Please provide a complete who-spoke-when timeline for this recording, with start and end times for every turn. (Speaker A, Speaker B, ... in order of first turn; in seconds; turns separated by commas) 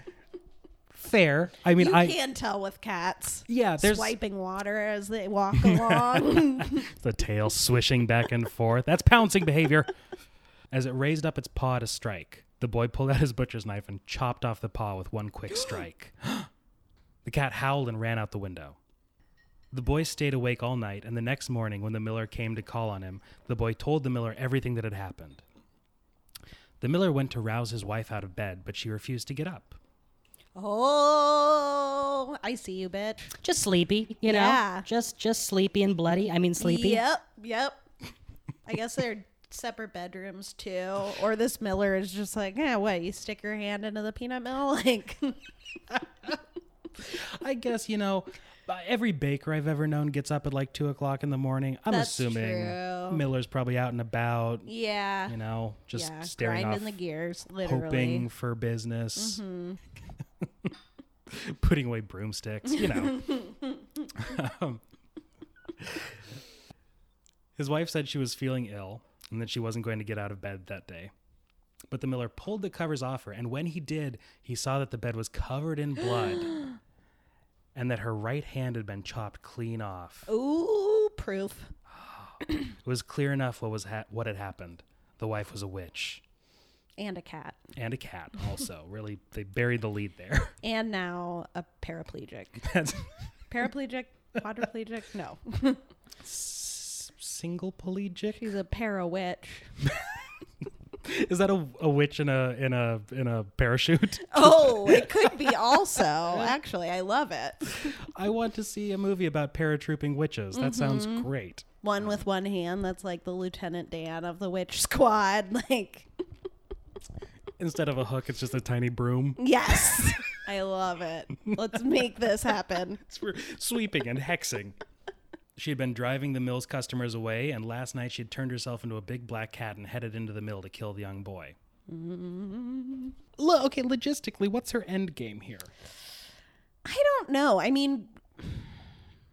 Speaker A: 0.9-2.2, Speaker B: 1.7-6.8, Speaker A: 3.5-4.1, Speaker A: 5.5-9.9, Speaker A: 10.7-16.5, Speaker A: 17.2-18.8, Speaker A: 19.7-25.4, Speaker A: 26.8-29.8, Speaker B: 30.5-33.3, Speaker C: 33.4-37.0, Speaker B: 34.2-34.9, Speaker B: 36.6-37.8, Speaker B: 38.6-45.4, Speaker A: 47.0-54.7, Speaker B: 51.9-53.2, Speaker B: 54.6-55.4, Speaker A: 55.3-57.0, Speaker B: 55.9-58.3, Speaker A: 57.6-59.4, Speaker B: 59.1-59.8, Speaker A: 60.4-60.7, Speaker A: 61.3-63.5, Speaker B: 62.7-64.0, Speaker A: 64.1-64.8, Speaker A: 65.8-66.1, Speaker A: 67.6-71.1, Speaker A: 71.9-76.6, Speaker A: 77.7-80.3, Speaker B: 80.3-81.7, Speaker A: 81.9-86.2, Speaker B: 87.0-87.6, Speaker A: 87.7-90.5, Speaker B: 90.6-92.7, Speaker A: 92.6-93.1, Speaker B: 93.5-95.8, Speaker A: 96.2-98.5, Speaker B: 98.3-99.7, Speaker A: 101.0-105.5, Speaker B: 104.2-107.9, Speaker A: 106.1-106.5, Speaker A: 107.7-111.7, Speaker B: 110.5-111.3, Speaker B: 111.8-116.1, Speaker A: 117.6-120.1, Speaker B: 119.4-123.0, Speaker A: 123.0-124.8, Speaker A: 125.5-131.6, Speaker B: 131.9-133.2, Speaker A: 133.4-135.7, Speaker B: 136.8-138.7